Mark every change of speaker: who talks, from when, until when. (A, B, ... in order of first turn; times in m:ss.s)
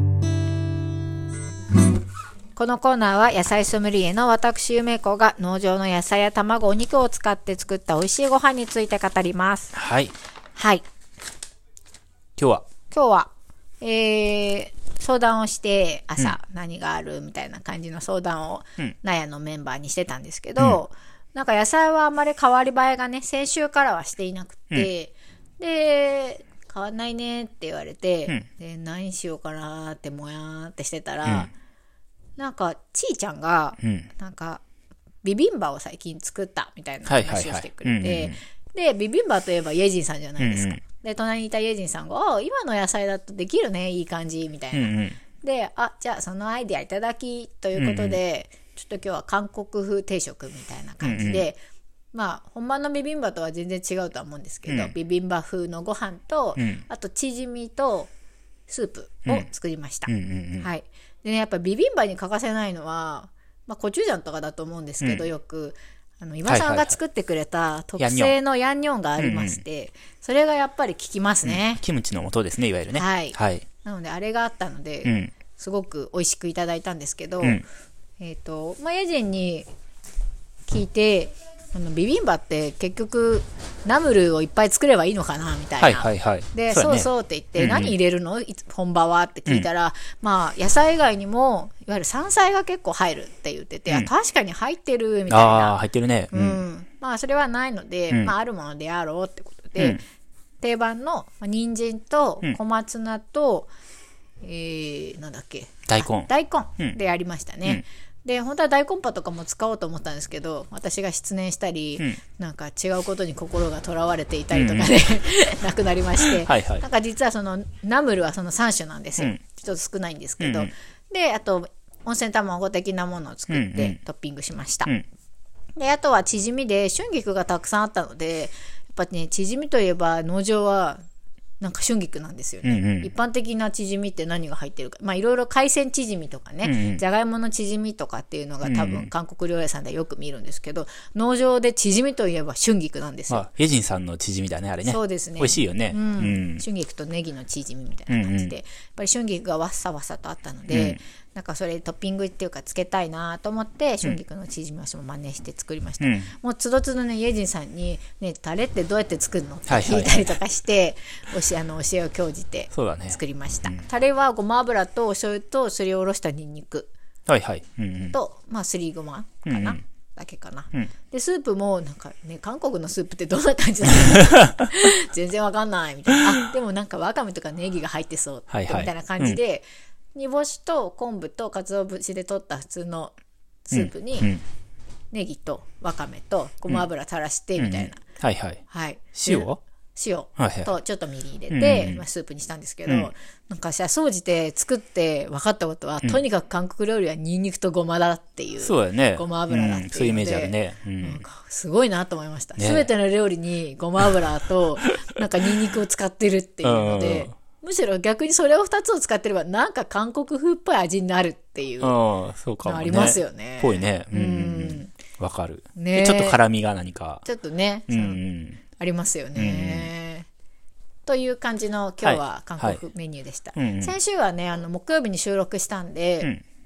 0:02.5-0:09.7 A
0:09.7-0:10.1 B
0:10.6-0:10.8 A
0:12.4-0:12.6 B
0:12.9-0:31.5 A
0:32.4-0:34.6 A
0:33.8-0:34.1 B
0:35.2-0:51.6 A
0:37.1-0:38.4 B
0:40.4-0:40.8 B
0:44.7-0:45.2 B
0:47.8-0:48.2 B
0:51.0-0:51.5 B
0:52.1-0:58.1 A
0:54.7-0:54.9 B
0:56.6-0:56.8 B
0:58.7-1:11.8 A
1:00.1-1:00.7 B
1:05.0-1:05.3 B
1:06.5-1:06.9 B
1:08.0-1:08.3 B
1:09.2-1:09.6 B
1:11.4-1:13.6 B
1:12.9-1:17.6 A
1:15.0-1:15.3 B
1:18.2-1:19.7 A
1:20.7-1:35.8 A
1:25.8-1:27.9 B
1:35.3-1:36.6 B
1:36.3-1:40.0 A
1:40.6-1:43.7 A
1:44.4-2:04.9 A
1:45.9-1:47.0 B
1:54.5-1:54.9 B
1:56.2-1:56.8 B
2:00.4-2:00.7 B
2:03.5-2:04.0 B
2:05.8-2:11.0 A
2:11.6-2:23.4 A
2:12.6-2:13.1 B
2:16.6-2:17.0 B
2:18.6-2:19.1 B
2:23.3-2:26.6 B
2:24.8-2:46.9 A
2:28.1-2:28.5 B
2:30.7-2:31.0 B
2:36.0-2:36.3 B
2:39.7-2:40.3 B
2:42.7-2:43.9 B
2:47.3-2:48.2 B
2:48.1-3:03.2 A
2:49.4-2:49.8 B
2:58.5-2:59.4 B
3:03.7-3:04.3 A
3:03.7-3:04.4 B
3:05.1-3:08.0 A
3:07.6-3:08.6 B
3:08.7-3:32.0 A
3:09.1-3:09.6 B
3:10.4-3:10.7 B
3:11.5-3:12.0 B
3:12.8-3:13.1 B
3:18.6-3:21.2 B
3:22.6-3:22.9 B
3:26.6-3:27.3 B
3:31.8-3:37.2 B
3:32.6-3:34.9 A
3:35.8-3:36.4 A
3:37.2-3:40.3 A
3:37.9-3:38.6 B
3:39.3-3:39.9 B
3:41.0-3:46.3 A
3:42.0-3:42.8 B
3:43.6-3:44.0 B